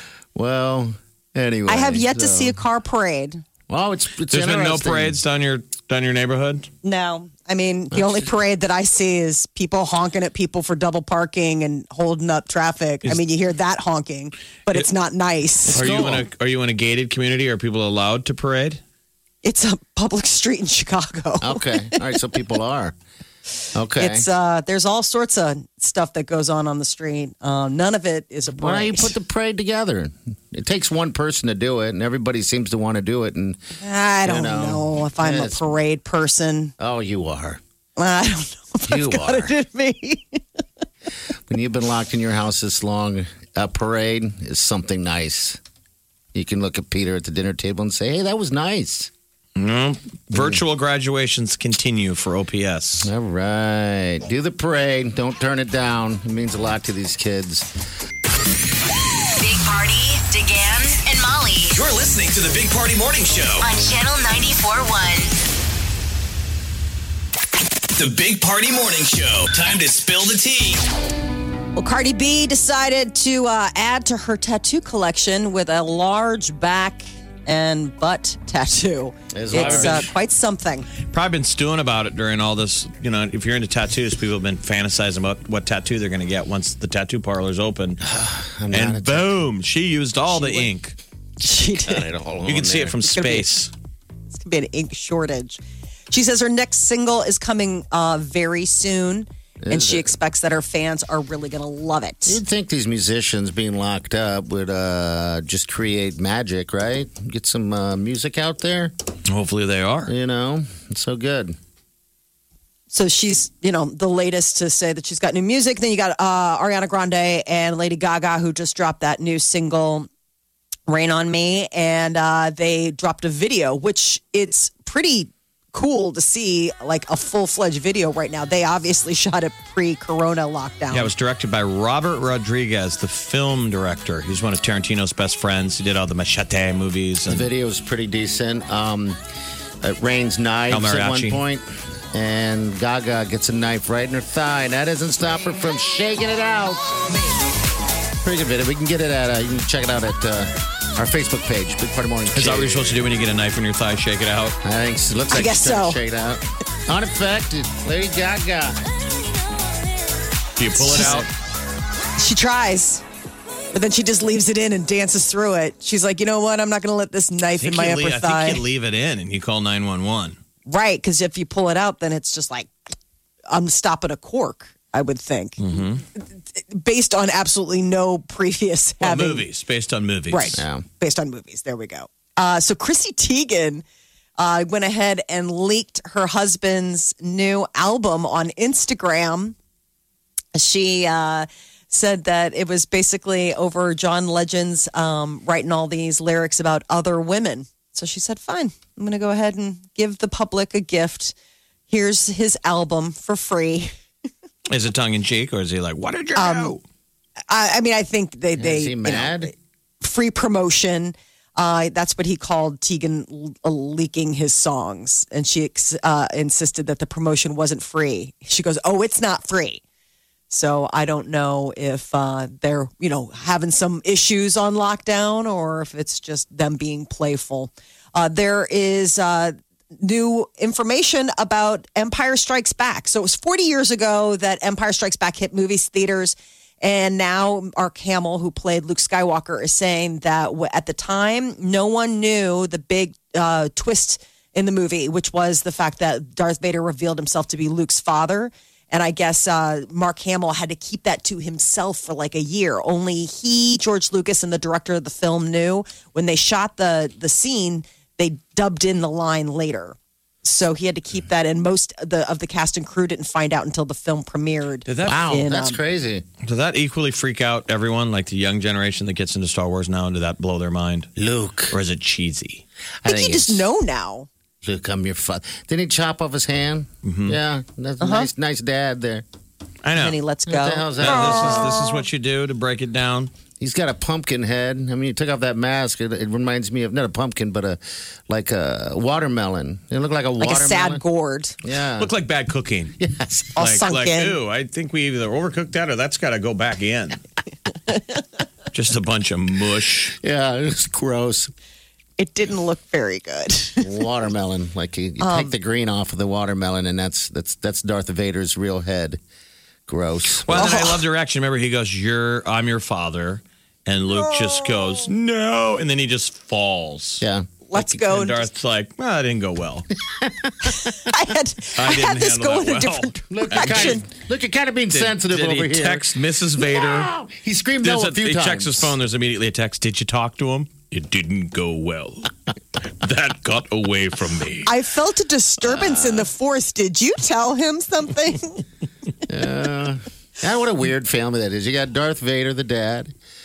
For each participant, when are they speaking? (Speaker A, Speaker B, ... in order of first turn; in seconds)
Speaker A: 0.3-2.6, 3.7-5.2, 7.9-8.3, 15.7-16.2, 21.4-22.9, 23.7-24.3, 28.6-33.6, 34.2-35.7, 36.8-37.6, 38.9-39.5, 41.5-45.6, 46.3-49.1, 50.3-50.6, 53.0-57.7, 79.3-80.1, 88.0-89.4, 91.8-93.0, 99.6-100.1, 102.2-108.9, 110.1-111.5, 137.3-139.2, 139.8-146.9, 148.2-153.0, 154.6-158.8, 180.5-180.8, 208.6-209.5, 265.0-266.2, 271.2-271.7, 273.0-273.6, 274.6-279.2, 280.5-281.8, 283.6-291.0, 291.6-292.1, 293.0-293.6, 300.2-301.5, 303.8-309.2, 309.9-310.9, 317.2-317.5, 320.2-320.7, 323.3-328.9, 335.6-336.3, 339.3-343.1
Speaker B: 1.7-3.4, 6.8-15.8, 19.4-22.0, 24.0-29.1, 33.8-36.7, 38.0-40.4, 71.8-80.9, 91.4-92.1, 93.1-93.5, 94.3-95.6, 96.1-102.4, 112.9-120.1, 120.9-131.1, 155.3-156.0, 160.7-161.2, 162.2-163.0, 163.7-168.6, 170.7-172.7, 173.5-179.4, 180.3-183.8, 184.4-189.6, 190.5-201.3, 201.9-203.9, 206.3-206.8, 207.5-219.8, 220.5-265.8, 273.0-274.3, 278.0-278.3, 279.9-282.0, 290.4-291.6, 293.6-294.4, 302.2-303.9, 305.2-305.5, 310.5-311.0, 314.1-314.9, 317.7-318.4, 320.7-324.0, 334.6-338.6
Speaker C: 4.3-6.7, 15.7-18.8, 49.5-53.1, 79.5-80.1, 81.1-88.0, 88.7-91.0, 92.5-93.7, 109.3-110.1, 130.9-137.5, 140.7-141.4, 152.3-154.6, 160.6-161.3, 167.6-170.4, 175.6-176.0, 179.0-180.6, 204.7-206.8, 264.9-265.2, 266.4-271.1, 271.7-272.6, 277.0-277.4, 279.8-280.2, 281.0-283.3, 292.0-292.9, 293.6-297.2, 298.7-300.1, 310.4-319.9, 321.8-324.0, 324.9-327.1, 327.8-332.3, 333.0-334.7
Speaker D: 59.4-61.7, 63.6-65.3
Speaker E: 61.7-63.7, 67.9-70.8